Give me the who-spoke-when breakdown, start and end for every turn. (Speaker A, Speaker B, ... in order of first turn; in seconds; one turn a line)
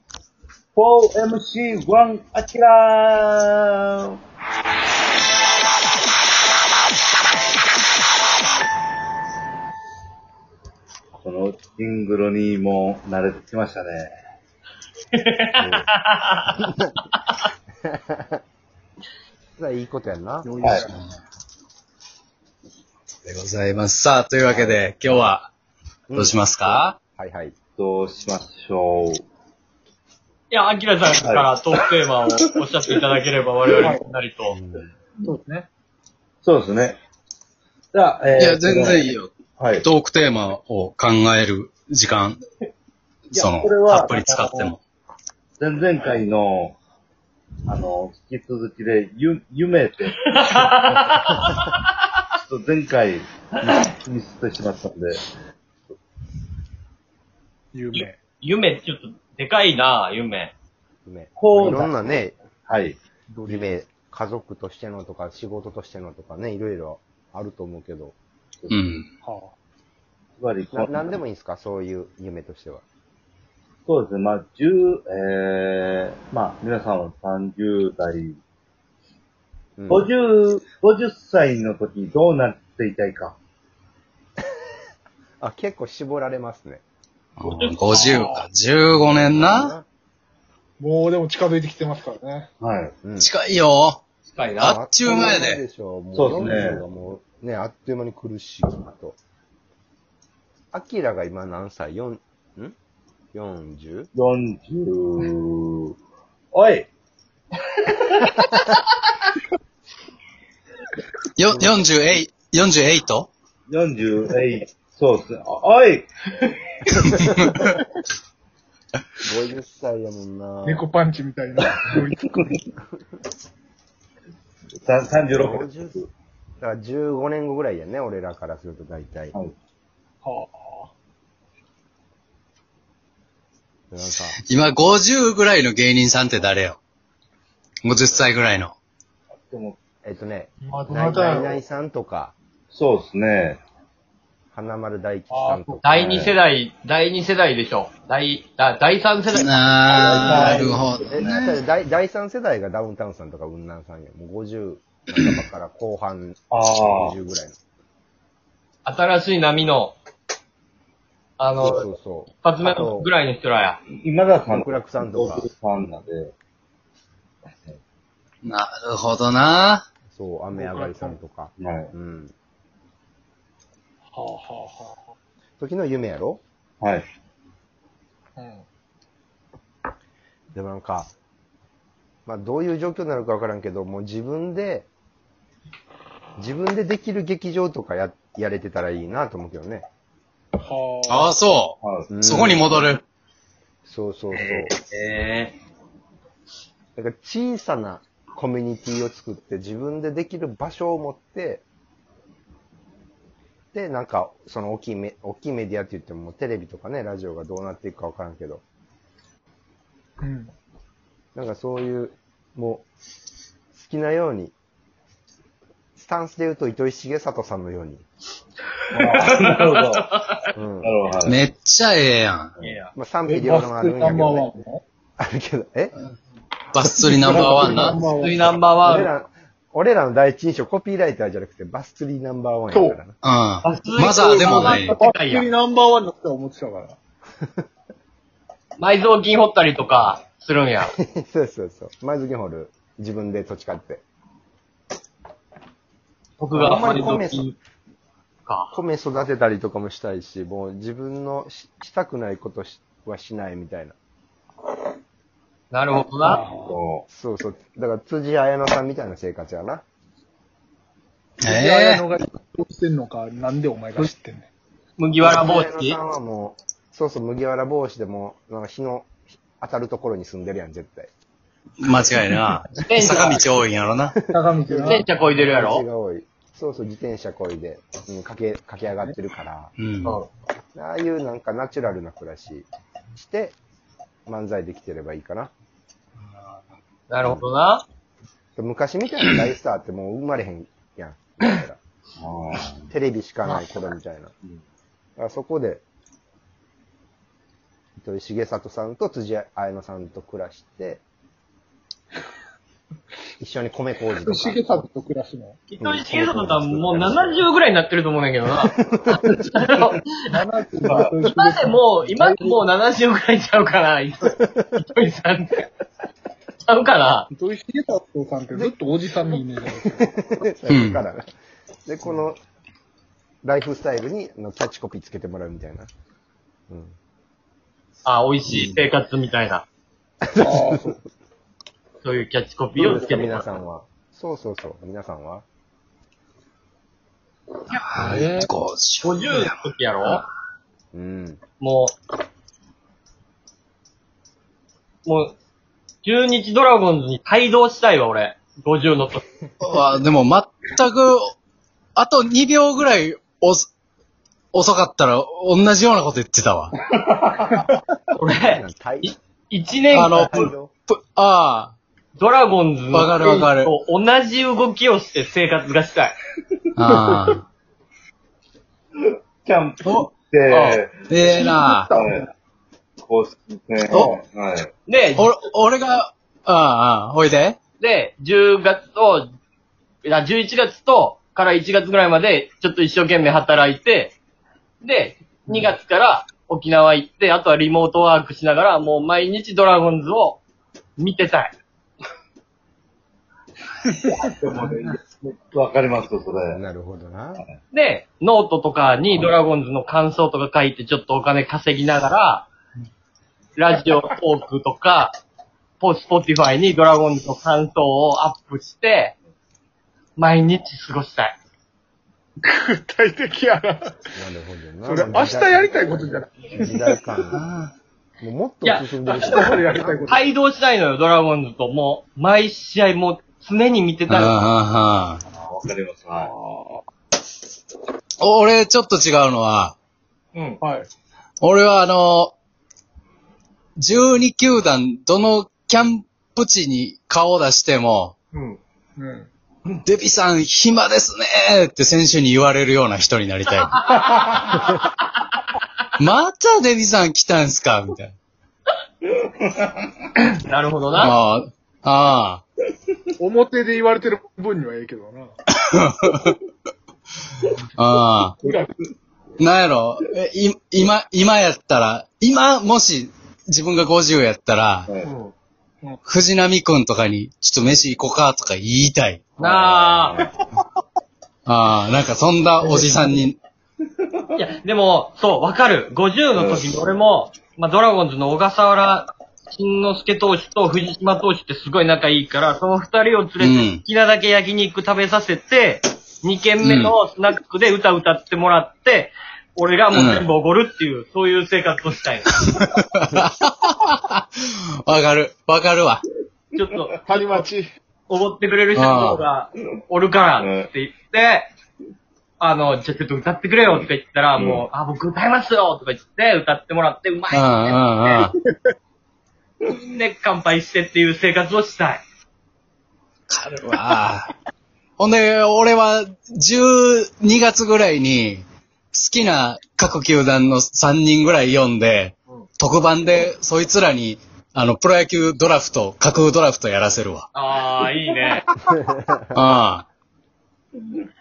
Speaker A: 0.7-4.1
Speaker A: 11.2-14.1
Speaker B: 15.1-17.4
Speaker C: 15.6-15.9
Speaker C: 17.9-18.4
Speaker C: 19.6-20.6
Speaker D: 20.4-20.9
Speaker E: 20.8-21.2
Speaker E: 23.2-25.5
Speaker C: 24.5-24.8
Speaker C: 26.1-27.5
Speaker E: 26.1-26.9
Speaker A: 27.8-29.2
Speaker B: 30.5-34.5
Speaker A: 31.2-31.5
Speaker C: 34.5-34.9
Speaker D: 35.2-35.7
Speaker A: 36.4-37.0
Speaker A: 37.9-39.9
Speaker E: 38.4-42.4
Speaker A: 43.3-44.5
Speaker E: 43.3-44.8
Speaker A: 45.6-46.8
Speaker A: 47.7-50.6
Speaker B: 50.3-51.8
Speaker A: 52.4-55.2
Speaker D: 57.7-58.2
Speaker B: 58.4-60.5
Speaker C: 61.0-62.4
Speaker A: 61.4-61.9
Speaker A: 62.7-63.0
Speaker D: 63.3-63.7
Speaker C: 63.5-68.2
Speaker E: 68.7-69.1
Speaker D: 69.2-69.5
Speaker A: 70.4-71.2
Speaker C: 70.7-72.8
Speaker A: 73.8-78.4
Speaker C: 79.8-80.1
Speaker A: 79.9-83.4
Speaker C: 85.4-86.8
Speaker E: 87.4-89.7
Speaker B: 87.4-88.3
Speaker D: 88.1-88.4
Speaker C: 88.9-89.8
Speaker D: 90.8-92.5
Speaker A: 92.6-92.9
Speaker C: 93.0-93.3
Speaker E: 93.2-94.0
Speaker B: 94.3-94.7
Speaker E: 94.6-95.6
Speaker C: 94.6-99.2
Speaker A: 96.1-96.8
Speaker C: 100.7-102.7
Speaker C: 103.3-104.1
Speaker A: 104.1-105.9
Speaker A: 106.5-106.9
Speaker E: 111.4-113.3
Speaker C: 111.5-111.8
Speaker A: 113.7-116.1
Speaker E: 117.0-117.5
Speaker C: 119.2-120.9
Speaker D: 120.6-122.5
Speaker A: 121.7-122.6
Speaker A: 124.8-126.1
Speaker C: 125.3-126.0
Speaker C: 126.6-129.3
Speaker D: 130.2-130.9
Speaker C: 133.9-134.4
Speaker E: 134.4-136.8
Speaker E: 137.8-138.7
Speaker A: 139.5-139.8
Speaker C: 140.0-142.3
Speaker D: 140.6-141.6
Speaker A: 142.7-143.6
Speaker C: 144.5-146.4
Speaker D: 145.3-145.8
Speaker B: 145.8-150.6
Speaker E: 149.3-151.6
Speaker A: 149.9-151.4
Speaker C: 151.1-157.6
Speaker A: 156.5-157.1
Speaker B: 158.8-160.0
Speaker B: 161.4-161.9
Speaker C: 161.6-163.1
Speaker B: 162.4-163.8
Speaker A: 164.0-166.3
Speaker C: 164.5-165.4
Speaker A: 167.5-167.8
Speaker E: 168.4-169.8
Speaker C: 170.1-172.3
Speaker D: 170.5-171.2
Speaker A: 171.6-171.9
Speaker D: 174.1-175.1
Speaker C: 175.6-176.4
Speaker A: 176.8-177.1
Speaker D: 178.4-178.6
Speaker C: 180.5-181.1
Speaker C: 182.2-184.9
Speaker C: 186.4-189.9
Speaker D: 190.6-191.3
Speaker E: 191.1-193.0
Speaker A: 191.8-192.1
Speaker C: 192.1-192.7
Speaker C: 193.8-194.7
Speaker B: 194.3-195.6
Speaker C: 196.9-201.6
Speaker C: 203.7-208.6
Speaker D: 210.2-210.5
Speaker C: 211.3-212.9
Speaker C: 213.7-214.5
Speaker C: 215.9-218.0
Speaker A: 218.9-220.0
Speaker B: 219.0-220.5
Speaker C: 220.5-220.9
Speaker A: 220.8-221.4
Speaker E: 221.2-222.5
Speaker B: 222.6-222.9
Speaker C: 222.9-224.5
Speaker D: 223.2-224.8
Speaker C: 225.2-225.9
Speaker E: 226.7-228.0
Speaker D: 227.2-228.5
Speaker A: 227.3-228.0
Speaker C: 227.6-227.9
Speaker B: 228.2-229.1
Speaker C: 228.8-233.2
Speaker D: 232.7-233.0
Speaker E: 233.2-234.9
Speaker B: 233.6-235.4
Speaker D: 234.2-237.0
Speaker B: 238.8-240.9
Speaker C: 241.0-244.0
Speaker B: 246.4-247.6
Speaker C: 246.5-247.5
Speaker B: 248.4-248.7
Speaker C: 248.7-253.9
Speaker B: 255.7-256.4
Speaker D: 256.2-256.7
Speaker A: 256.6-257.0
Speaker C: 257.1-259.8
Speaker D: 261.4-264.5
Speaker E: 261.4-262.1
Speaker B: 265.0-266.0
Speaker C: 265.2-271.1
Speaker E: 271.8-274.1
Speaker B: 272.8-273.5
Speaker D: 274.3-275.1
Speaker C: 274.3-279.7
Speaker B: 274.9-275.8
Speaker E: 279.8-280.2
Speaker C: 280.7-283.6
Speaker C: 284.2-285.5
Speaker B: 287.1-287.9
Speaker C: 287.2-287.5
Speaker C: 288.6-291.8
Speaker A: 292.2-292.9
Speaker C: 292.9-294.3
Speaker C: 295.2-295.8
Speaker C: 298.0-301.0
Speaker C: 303.4-304.8
Speaker D: 304.2-305.6
Speaker B: 305.7-310.2
Speaker C: 305.8-307.4
Speaker C: 308.6-309.2
Speaker D: 310.2-312.6
Speaker A: 310.8-311.2
Speaker B: 311.3-315.7
Speaker B: 316.7-317.3
Speaker D: 317.3-320.1
Speaker C: 319.3-321.3
Speaker E: 320.7-321.0
Speaker C: 321.9-322.4
Speaker C: 323.4-325.9
Speaker C: 326.7-326.9
Speaker B: 328.0-329.6
Speaker E: 328.5-328.8
Speaker C: 330.2-330.9
Speaker D: 330.4-331.0
Speaker B: 332.0-333.5
Speaker C: 332.8-335.4
Speaker E: 337.7-339.6
Speaker D: 338.0-338.5
Speaker B: 339.0-340.2
Speaker C: 340.9-341.4
Speaker B: 341.6-341.9
Speaker B: 345.0-345.4
Speaker B: 346.0-349.2
Speaker E: 349.6-351.3
Speaker E: 351.9-353.7
Speaker E: 354.5-356.7
Speaker A: 357.0-357.4
Speaker B: 358.1-360.5
Speaker C: 358.3-359.1
Speaker E: 359.9-361.7
Speaker C: 360.1-360.7
Speaker B: 362.2-366.1
Speaker E: 362.9-363.7
Speaker E: 366.8-367.4
Speaker A: 369.1-371.2
Speaker B: 370.5-370.8
Speaker E: 371.1-371.9
Speaker D: 371.3-372.3
Speaker A: 371.9-372.2
Speaker A: 373.0-374.7
Speaker B: 374.9-375.3
Speaker E: 375.2-377.6
Speaker B: 377.8-379.3
Speaker B: 380.0-384.1
Speaker B: 384.8-390.4
Speaker B: 391.0-391.5
Speaker A: 394.0-396.6
Speaker C: 396.5-397.4
Speaker B: 397.7-402.5
Speaker B: 403.6-405.2
Speaker B: 405.8-409.1
Speaker B: 410.2-411.4
Speaker D: 412.4-413.9
Speaker C: 414.1-417.4
Speaker D: 414.9-417.0
Speaker E: 417.3-417.7
Speaker C: 418.2-420.1
Speaker B: 418.6-424.4
Speaker D: 419.4-420.3
Speaker E: 424.1-425.2
Speaker A: 425.3-426.3
Speaker D: 426.2-426.9
Speaker E: 428.2-429.8
Speaker B: 430.3-430.6
Speaker D: 430.6-430.9
Speaker E: 431.4-432.3
Speaker E: 433.8-438.1
Speaker B: 438.3-438.6
Speaker D: 439.0-439.3
Speaker E: 439.8-443.9
Speaker B: 443.9-445.4
Speaker D: 444.1-444.5
Speaker E: 446.0-448.1
Speaker A: 449.0-450.1
Speaker B: 450.4-451.1
Speaker E: 451.0-452.4
Speaker D: 453.2-455.3
Speaker E: 455.7-456.4
Speaker E: 457.8-458.4
Speaker A: 458.4-458.7
Speaker D: 458.4-458.7
Speaker E: 459.4-464.9
Speaker B: 465.0-465.3
Speaker E: 466.1-469.3
Speaker A: 469.4-470.3
Speaker B: 469.4-470.2
Speaker E: 471.4-473.4
Speaker B: 474.3-492.3
Speaker A: 476.4-476.9
Speaker E: 483.4-483.8
Speaker E: 486.6-486.9
Speaker E: 489.9-490.3
Speaker E: 492.3-494.2
Speaker E: 494.8-496.0
Speaker B: 496.6-497.0
Speaker D: 497.1-497.7
Speaker B: 498.1-501.5
Speaker E: 498.7-499.2
Speaker A: 500.4-500.7
Speaker B: 502.4-508.3
Speaker A: 503.6-504.6
Speaker E: 507.3-508.3
Speaker B: 509.6-512.0
Speaker E: 513.3-514.3
Speaker E: 515.0-527.3
Speaker B: 527.3-528.4
Speaker C: 528.7-529.5
Speaker E: 529.3-529.9